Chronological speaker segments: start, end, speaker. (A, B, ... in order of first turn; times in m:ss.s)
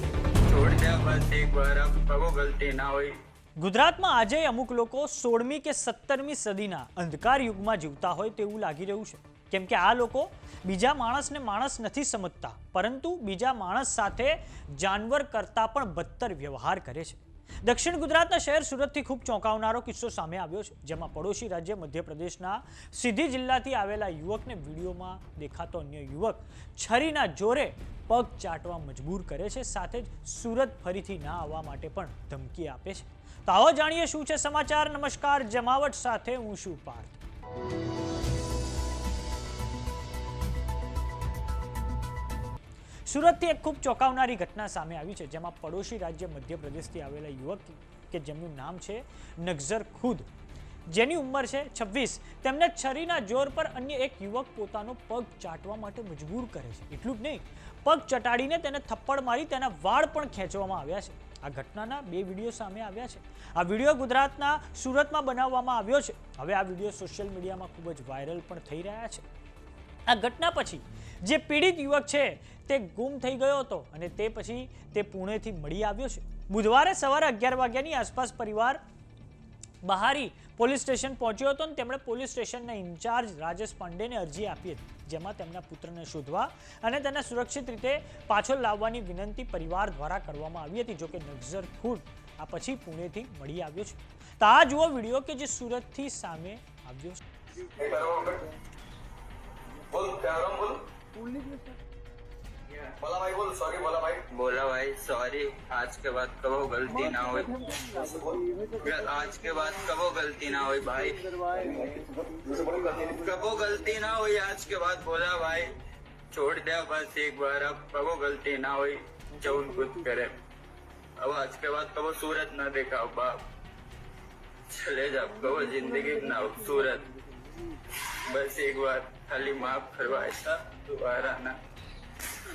0:00.4-0:03.2 A
0:03.6-0:37.2 B
0:43.1-0:50.3 B
0:50.9-1:09.2 B
1:10.1-1:18.8 B
1:19.8-1:37.2 B
1:37.7-1:38.5 C
1:39.9-1:40.9 C
1:43.0-1:44.3 C
1:44.2-1:47.7 A
1:47.9-1:48.5 C
1:48.8-1:51.8 A
1:52.5-1:53.0 C
1:52.9-1:55.8 A
1:56.3-2:00.4 A
2:01.2-2:03.4 A
2:04.7-2:07.1 A
2:08.1-2:11.6 A